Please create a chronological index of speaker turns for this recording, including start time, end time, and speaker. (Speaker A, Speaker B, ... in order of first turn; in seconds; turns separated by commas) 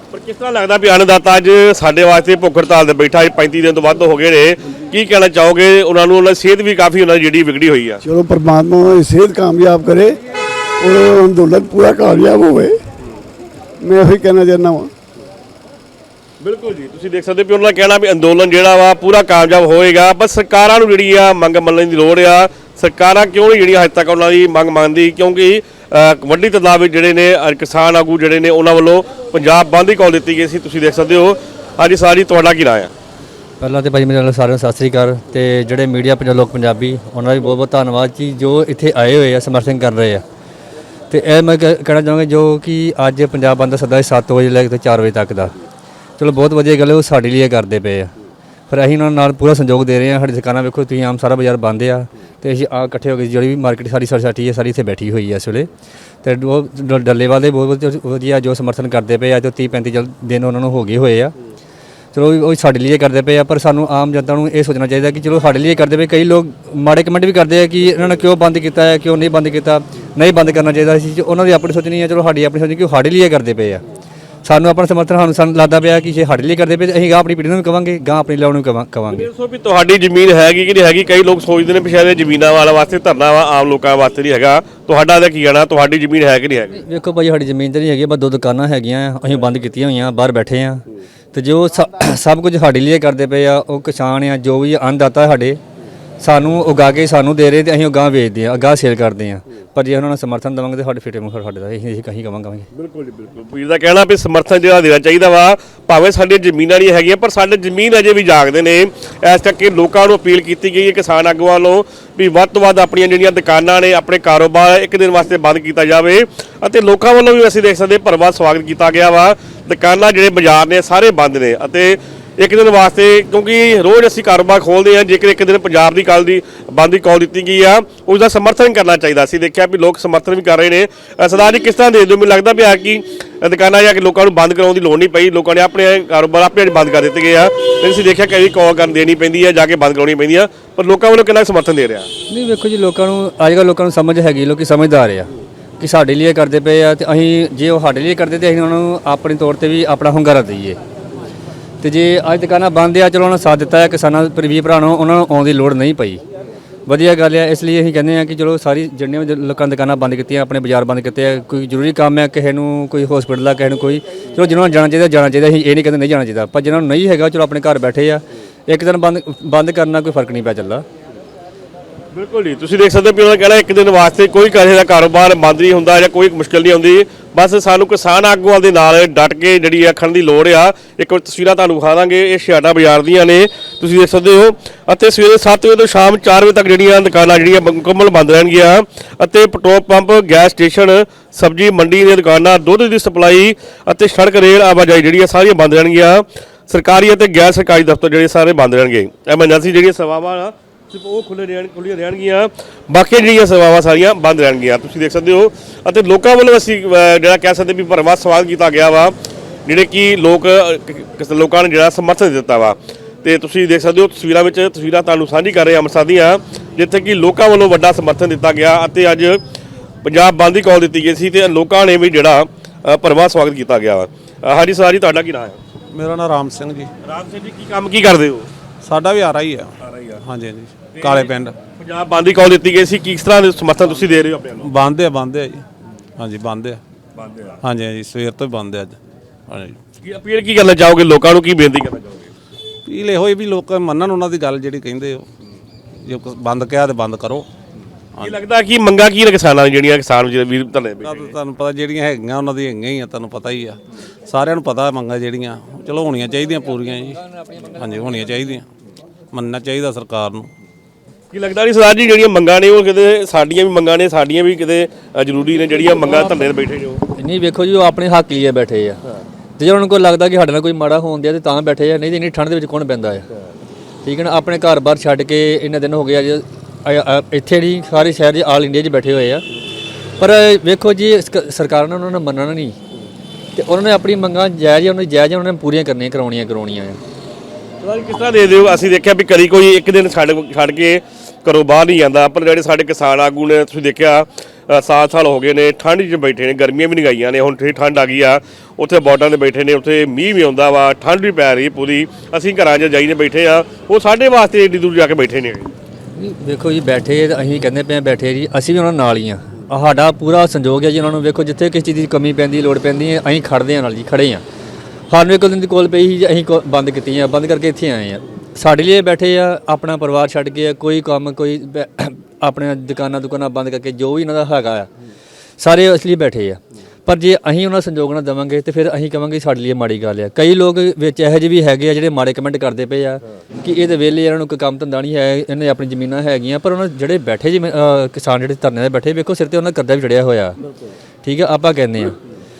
Speaker A: 0.1-8.0, Speaker B: 8.0-10.1, Speaker B: 10.8-12.8, Speaker B: 13.8-14.9, Speaker A: 16.4-32.9, Speaker C: 33.6-40.2, Speaker C: 41.1-45.5, Speaker C: 46.2-48.1, Speaker C: 48.7-55.7, Speaker C: 56.2-61.3, Speaker C: 62.1-73.8, Speaker C: 74.5-79.2, Speaker A: 79.1-86.7, Speaker C: 86.7-95.6, Speaker C: 96.2-102.7, Speaker A: 102.7-142.1, Speaker C: 142.3-150.8, Speaker C: 151.8-156.2, Speaker C: 156.9-170.8, Speaker A: 172.1-209.1, Speaker A: 209.7-219.4, Speaker A: 220.0-225.6, Speaker D: 225.9-226.9, Speaker A: 227.0-228.5, Speaker D: 228.8-231.5, Speaker A: 229.8-230.2, Speaker A: 230.9-234.7, Speaker D: 234.6-235.6, Speaker D: 236.2-236.8, Speaker A: 237.2-237.6, Speaker D: 237.6-239.8, Speaker A: 240.0-242.3, Speaker D: 242.9-245.2, Speaker D: 246.0-247.5, Speaker A: 248.2-251.3, Speaker D: 251.0-258.6, Speaker D: 259.3-260.5, Speaker A: 261.3-267.0, Speaker C: 267.2-269.0, Speaker C: 269.6-273.3, Speaker C: 274.0-279.4, Speaker C: 280.2-282.8, Speaker C: 283.5-287.0, Speaker A: 287.8-305.7, Speaker C: 306.1-314.4, Speaker C: 315.1-324.9, Speaker C: 325.6-340.6, Speaker C: 341.2-342.2